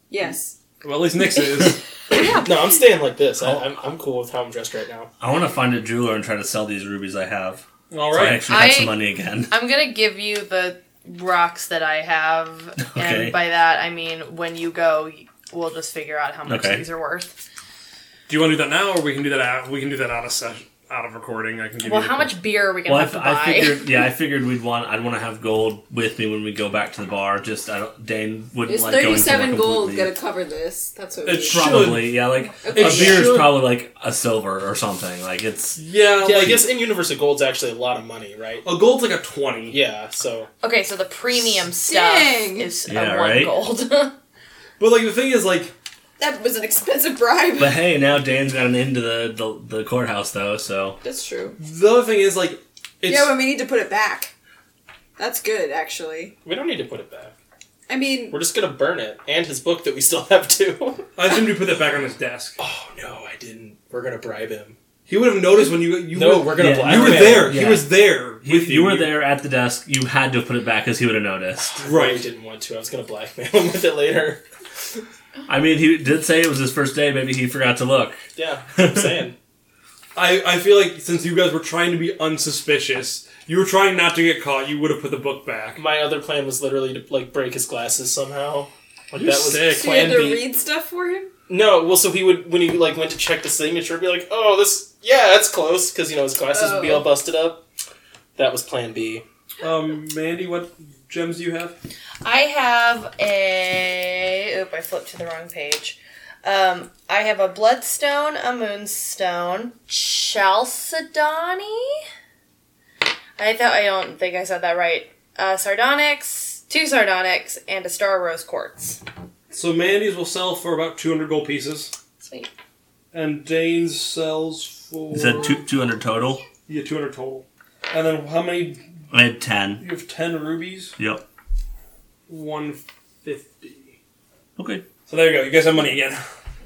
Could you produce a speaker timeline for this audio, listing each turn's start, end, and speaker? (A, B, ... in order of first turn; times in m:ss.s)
0:00.1-0:00.6 A
0:00.8-0:01.8 B
0:02.1-0:02.4 A
0:02.2-0:05.1 C
0:05.2-0:09.5 D
0:07.9-0:08.4 B
0:08.5-0:17.4 E
0:12.8-0:13.4 D
0:16.4-0:16.8 D
0:18.3-0:22.3 B
0:21.8-0:23.8 E
0:22.9-0:30.1 D
0:28.7-0:31.9 A
0:31.2-0:33.6 B
0:31.5-0:35.8 D
0:32.6-0:33.4 A
0:35.8-0:36.6 B
0:36.2-0:38.6 C
0:36.4-0:36.6 D
0:38.6-0:39.8 B
0:39.7-0:40.5 C
0:40.6-0:44.1 E
0:41.9-0:42.7 A
0:42.9-0:43.5 D
0:44.8-0:45.7 B
0:46.2-0:47.8 A
0:47.6-0:51.0 D
0:51.0-0:51.6 A
0:51.6-0:53.3 B
0:53.0-0:54.3 A
0:55.2-0:56.4 A
0:56.4-0:57.3 C
0:57.9-0:58.4 A
0:58.3-1:01.1 C
1:01.2-1:02.6 B
1:02.6-1:04.8 C
1:05.1-1:09.1 B
1:06.1-1:07.7 C
1:06.6-1:11.8 D
1:11.8-1:14.4 C
1:11.8-1:12.2 B
1:15.5-1:18.2 D
1:18.4-1:19.4 C
1:18.8-1:19.1 D
1:20.1-1:25.8 B
1:25.8-1:30.4 C
1:29.1-1:30.3 B
1:29.7-1:31.3 A
1:31.5-1:37.6 C
1:36.5-1:37.1 A
1:38.4-1:39.2 C
1:39.6-1:41.8 B
1:42.2-1:51.9 E
1:53.4-1:59.0 E
1:59.5-2:01.9 B
2:02.2-2:02.5 E
2:03.1-2:05.6 B
2:05.1-2:06.4 D
2:06.7-2:08.8 B
2:09.1-2:09.8 D
2:09.8-2:11.0 B
2:11.0-2:11.2 D
2:12.3-2:14.0 B
2:14.6-2:14.9 D
2:15.1-2:16.2 B